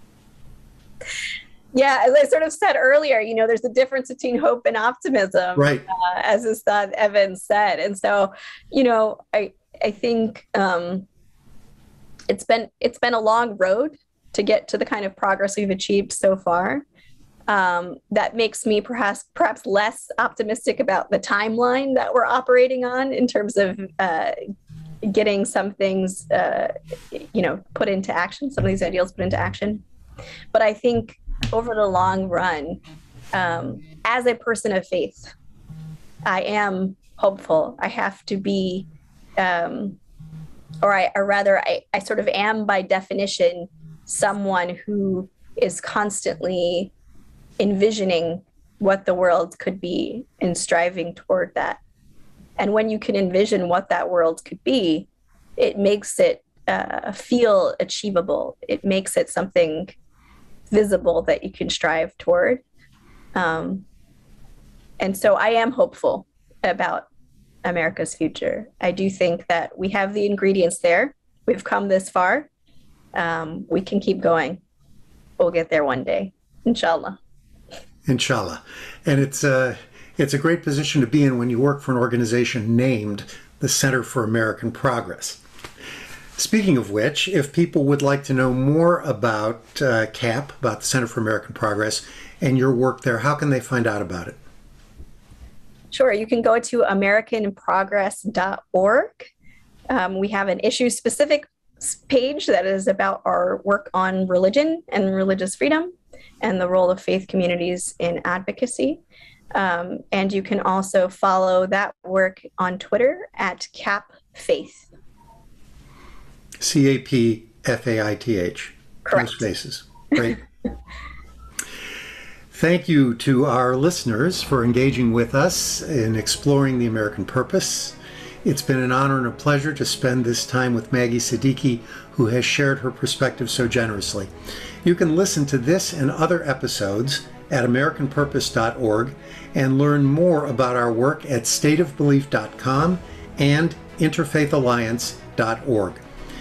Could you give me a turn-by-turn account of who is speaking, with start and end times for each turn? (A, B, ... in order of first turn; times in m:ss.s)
0:01.7-0:11.1 A
0:05.6-0:05.8 B
0:12.3-0:16.8 A
0:17.5-0:24.4 A
0:25.0-0:29.8 A
0:30.5-0:32.8 A
0:33.3-0:35.3 A
0:36.3-0:40.0 A
0:40.8-0:46.9 A
0:47.6-0:51.8 A
0:52.6-1:00.0 A
1:00.7-1:02.6 A
1:03.4-1:03.8 A
1:05.0-1:07.1 A
1:07.6-1:12.5 A
1:13.1-1:14.6 A
1:15.4-1:17.2 A
1:18.1-1:25.4 B
1:26.4-1:34.4 B
1:35.9-1:39.3 A
1:39.9-1:49.0 A
1:49.5-1:54.9 A
1:56.6-2:00.4 B
1:59.0-1:59.4 A
2:02.5-2:14.3 B
2:14.8-2:26.0 B